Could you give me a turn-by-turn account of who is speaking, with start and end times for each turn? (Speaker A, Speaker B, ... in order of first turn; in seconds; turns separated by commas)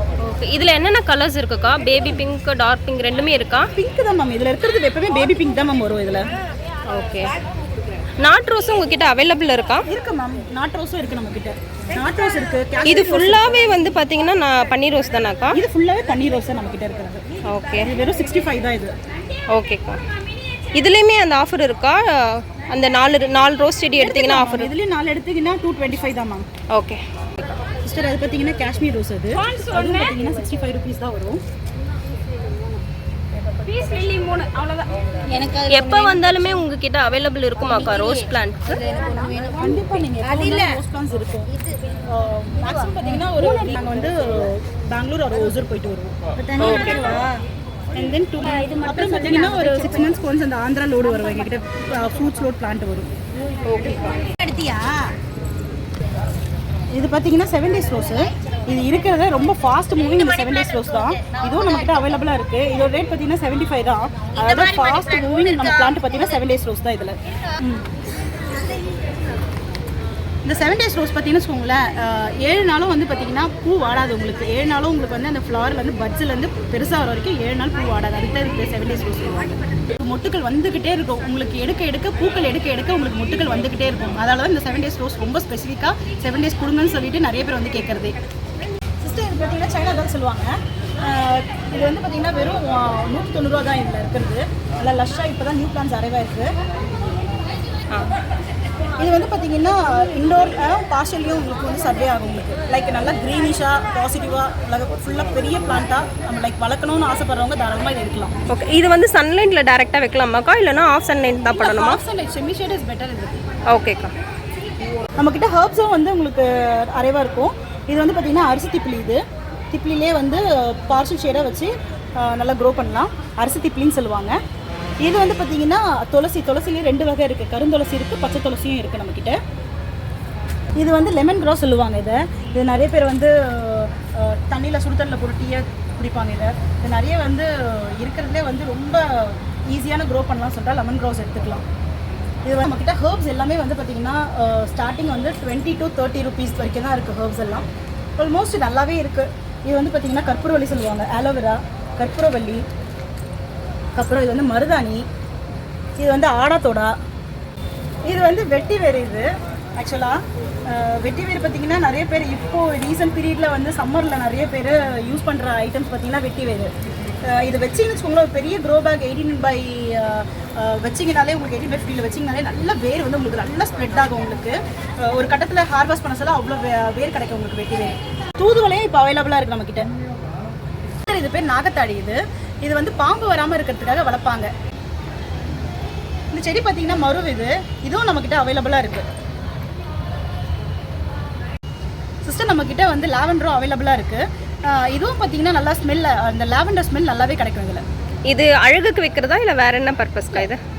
Speaker A: 0.2-3.7, Speaker B: 3.7-6.2, Speaker A: 6.9-7.3, Speaker A: 8.2-9.8, Speaker B: 9.9-13.5, Speaker A: 12.8-15.6, Speaker B: 15.5-17.2, Speaker A: 17.4-17.9, Speaker B: 17.8-18.9, Speaker A: 19.5-20.0, Speaker A: 20.7-24.7, Speaker B: 24.0-26.5, Speaker A: 26.7-27.6, Speaker B: 27.8-31.4, Speaker C: 32.4-32.8, Speaker C: 33.6-36.6, Speaker A: 35.7-38.8, Speaker C: 37.6-40.8, Speaker B: 38.9-41.5, Speaker C: 41.6-41.9, Speaker B: 42.0-46.1, Speaker C: 42.9-43.7, Speaker C: 46.4-47.4, Speaker A: 46.6-47.1, Speaker B: 47.9-53.1, Speaker C: 48.4-50.1, Speaker A: 53.6-54.2, Speaker C: 53.8-55.1, Speaker B: 56.9-67.8, Speaker C: 60.0-62.0, Speaker C: 64.3-65.9, Speaker B: 70.5-88.2, Speaker B: 89.0-96.5, Speaker B: 99.0-108.3, Speaker A: 108.5-112.0, Speaker B: 111.5-113.4, Speaker A: 113.7-114.1, Speaker B: 115.2-124.4, Speaker B: 125.0-129.4, Speaker B: 130.8-141.6, Speaker B: 142.4-147.7, Speaker B: 148.2-152.6, Speaker B: 153.9-155.0, Speaker B: 156.0-156.9, Speaker B: 158.1-166.7, Speaker B: 167.2-179.9, Speaker B: 181.0-184.5, Speaker B: 186.3-189.1, Speaker B: 192.2-197.8, Speaker A: 198.3-200.6